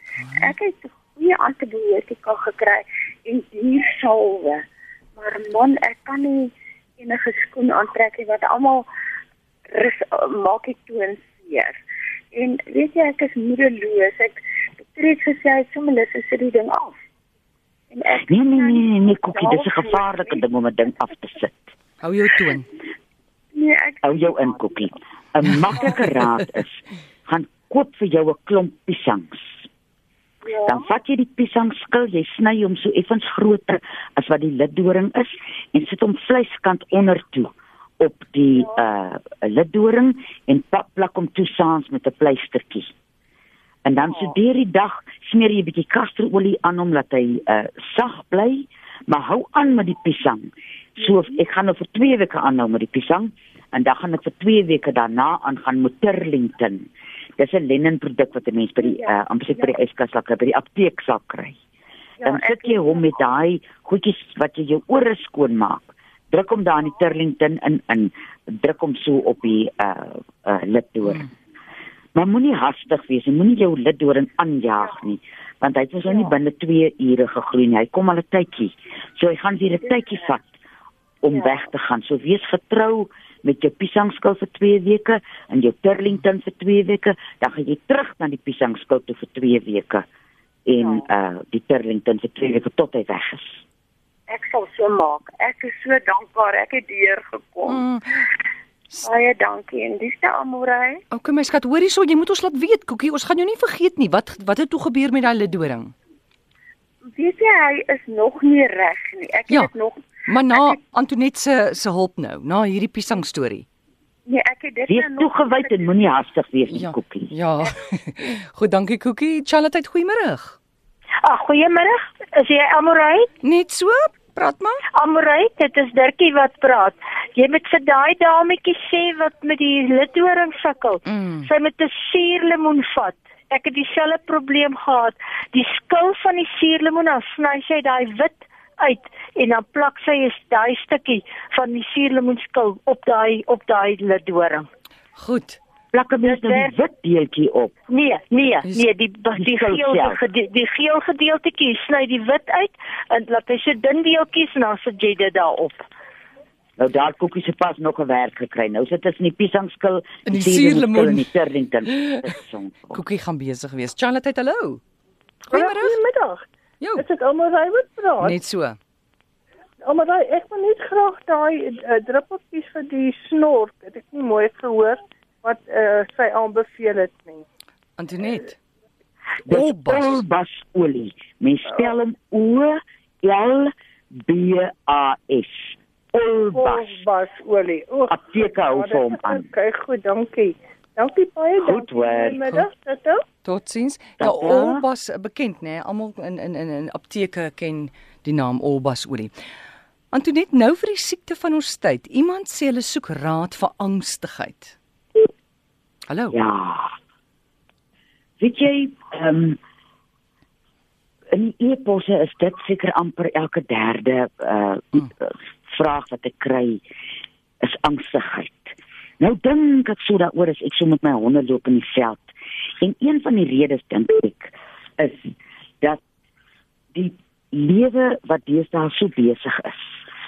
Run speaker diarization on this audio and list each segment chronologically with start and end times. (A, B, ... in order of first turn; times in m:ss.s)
0:00.2-0:00.5 A
0:00.4-0:04.6 B
0:05.2-0:08.9 B
0:09.7-0:11.8 B
0:12.3-0:14.4 B
0:14.9-0:17.0 B
0:17.9-0:20.0 B
0:18.3-0:21.7 C
0:22.0-0:22.7 A
0:23.5-0:24.7 B
0:24.0-0:29.7 C
0:30.4-0:30.8 B
0:30.6-0:42.9 C
0:43.8-0:56.9 C
0:57.4-1:01.6 C
1:02.2-1:03.1 B
1:02.2-1:11.3 C
1:12.2-1:20.5 C
1:21.2-1:30.0 C
1:30.7-1:33.6 C
1:34.3-1:37.8 B
1:37.7-1:38.3 A
1:39.0-1:41.0 B
1:41.1-1:45.9 A
1:47.0-1:50.8 B
1:50.2-1:53.7 A
1:54.3-1:55.8 B
1:54.9-1:57.3 C
1:56.7-2:00.6 A
2:01.2-2:03.3 D
2:03.4-2:04.8 A
2:04.9-2:24.7 D
2:11.1-2:11.5 A
2:25.2-2:25.6 A
2:25.9-2:27.7 C
2:26.2-2:26.7 D
2:27.9-2:35.8 D
2:29.4-2:30.2 C
2:36.8-2:43.0 C
2:40.3-2:41.3 A
2:41.9-2:42.2 A
2:42.9-2:44.8 A
2:45.5-2:46.0 A
2:45.5-2:48.4 E
2:46.8-2:47.1 A
2:48.2-2:48.8 A
2:49.8-2:57.4 E
2:58.0-2:58.6 A
2:59.5-3:07.0 C
2:59.5-3:00.2 A
3:06.5-3:13.2 E
3:08.1-3:09.5 C
3:11.6-3:12.4 C
3:13.4-3:19.3 A
3:14.2-3:14.8 C
3:20.1-3:24.8 A
3:26.1-3:26.4 A
3:26.3-3:26.9 C
3:28.4-3:29.6 C
3:31.3-3:36.8 C
3:37.6-3:46.0 C
3:46.9-3:50.0 C